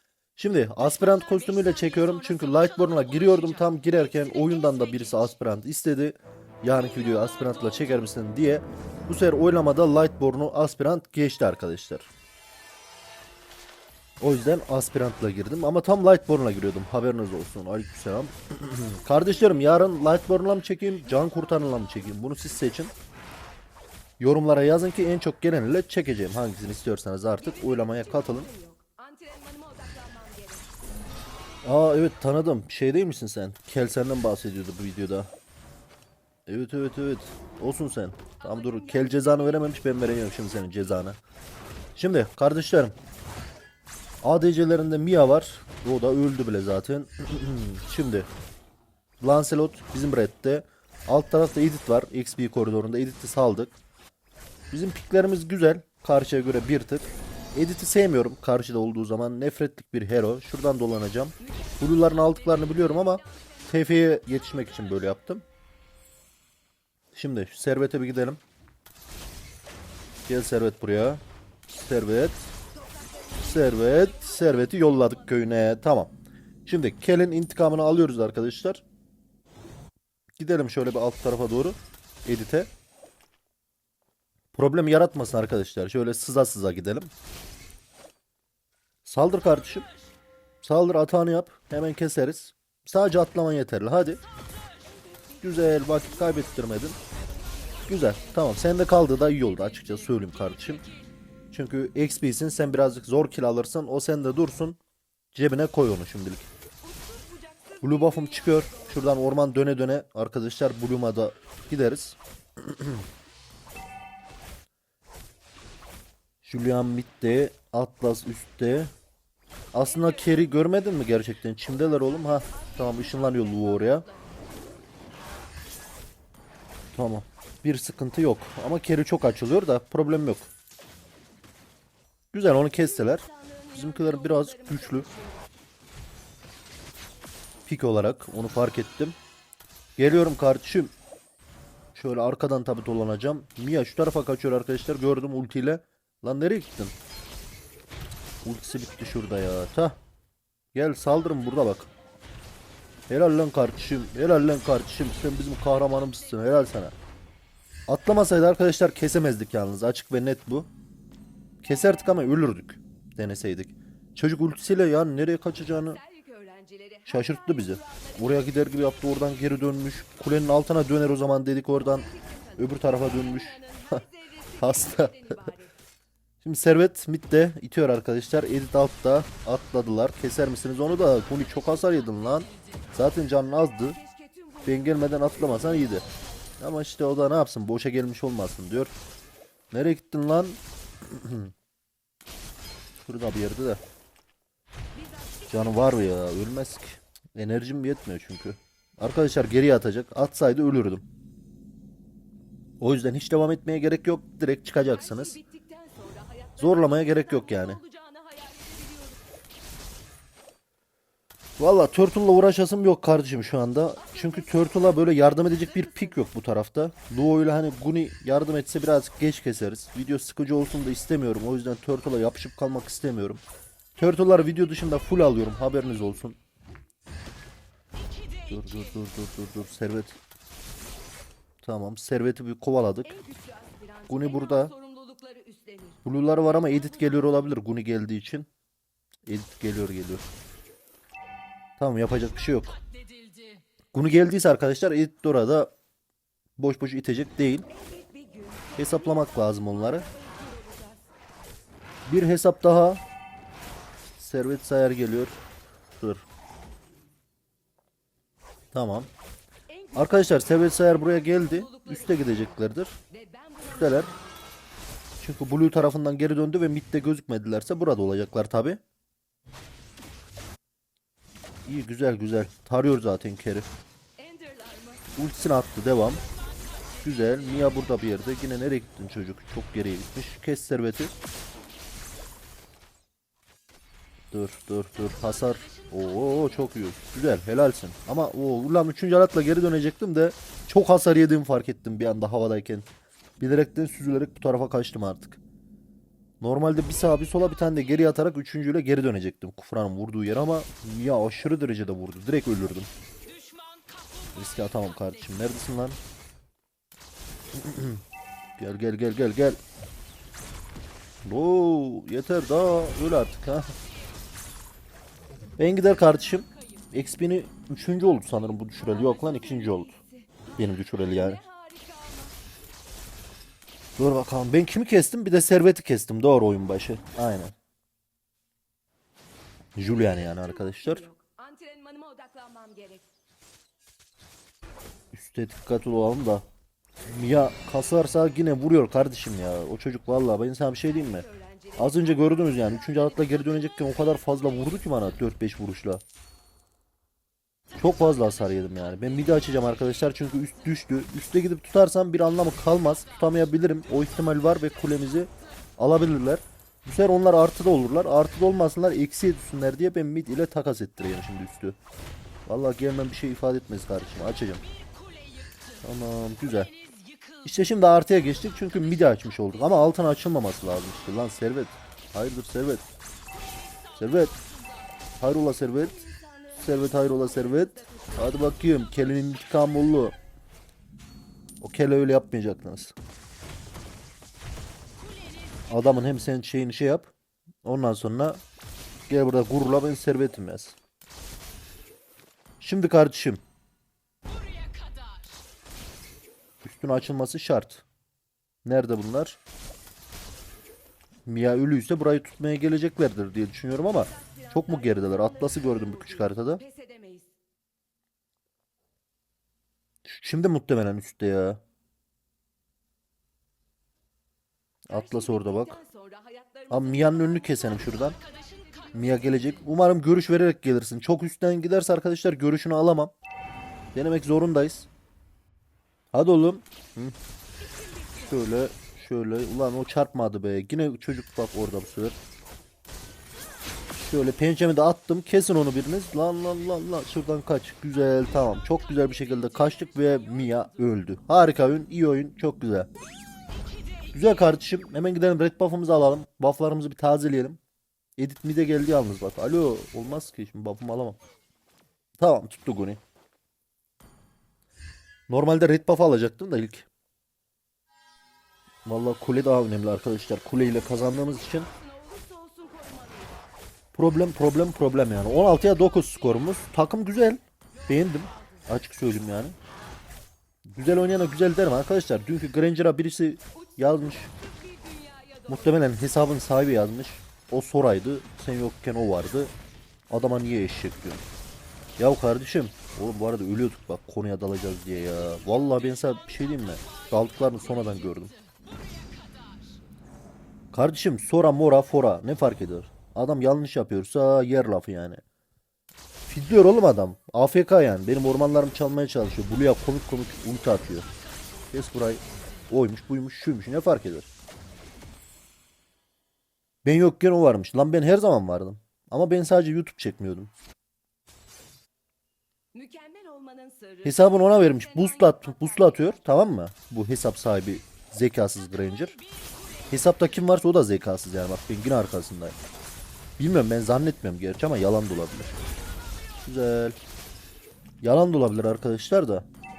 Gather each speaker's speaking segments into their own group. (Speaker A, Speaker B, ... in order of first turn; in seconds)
Speaker A: 0.4-12.1, 14.2-22.9, 24.2-28.5, 31.6-35.3, 36.5-41.2, 42.0-43.0, 44.2-48.3, 49.2-53.8, 54.7-65.4, 67.1-68.4, 70.3-72.4, 73.4-76.1, 76.7-78.8, 80.4-82.7, 84.5-87.1, 89.0-89.9, 90.6-94.2, 95.4-97.0, 97.9-100.8, 101.5-104.8, 105.3-106.5, 107.8-113.0, 116.4-118.9, 119.7-124.0, 126.9-130.5, 132.3-135.1, 137.7-139.2, 140.0-140.9, 141.9-146.9, 148.4-150.0, 150.7-151.9, 153.1-156.9, 157.9-160.7, 161.6-166.0, 167.1-174.0, 174.6-175.4, 176.4-184.0, 184.7-186.1, 186.6-189.0, 189.7-191.5, 193.0-193.8, 195.5-201.1, 202.8-205.4, 206.6-207.8, 211.6-223.4, 224.0-226.4, 228.5-230.2, 231.6-233.1, 234.1-234.7, 236.1-238.5, 239.3-240.2, 241.8-242.8, 243.9-245.7, 246.6-247.7, 248.8-250.1, 252.1-253.0, 254.2-255.4, 255.9-256.2, 258.7-259.1, 259.9-263.0, 263.7-264.1, 265.2-268.8, 271.6-273.7, 275.1-276.2, 277.0-281.1, 284.3-292.9, 293.4-295.4, 296.4-302.9, 304.3-306.0, 307.5-308.0, 308.6-309.6, 311.2-313.7, 315.6-319.9, 320.6-321.4, 324.0-327.5, 329.8-331.1, 335.1-336.4, 337.1-341.2, 341.8-346.0, 347.8-361.8, 362.4-364.6, 365.8-366.7, 367.4-372.9, 373.9-374.4, 375.2-376.0, 376.6-380.2, 381.6-382.9, 385.7-387.1, 387.6-388.4, 389.1-390.8, 392.6-393.4, 396.6-397.8, 398.6-399.4, 401.2-406.6, 410.0-411.6, 414.9-415.8, 416.7-418.2, 418.9-423.1, 423.9-424.9, 426.1-427.1, 428.2-432.2, 433.9-442.9, 444.1-447.6, 448.2-451.2, 452.2-453.0, 455.3-456.9, 458.9-461.7, 463.9-469.6, 470.8-474.3, 475.5-479.5, 480.1-481.2, 482.0-488.4, 490.7-495.2, 496.3-501.1, 501.7-504.3, 506.8-510.5, 514.0-519.2, 519.9-522.6, 523.4-525.6, 526.5-527.0, 528.0-529.5
Speaker B: 18.7-20.0, 21.2-21.8, 27.4-30.7, 38.5-39.9, 61.5-64.6, 72.8-75.2, 94.8-96.6, 97.4-97.8, 106.8-109.0, 120.0-120.6, 121.9-124.3, 133.0-135.5, 166.0-168.2, 172.0-175.7, 184.0-184.8, 186.0-186.2, 195.0-195.6, 205.0-209.2, 214.1-214.7, 215.5-216.1, 233.1-236.0, 247.7-251.1, 259.8-262.5, 263.1-264.3, 274.2-275.1, 319.1-322.4, 330.1-333.1, 341.2-342.4, 375.9-378.3, 404.1-407.3, 414.9-418.9, 427.7-428.2, 460.9-463.4, 473.7-475.6, 512.7-516.1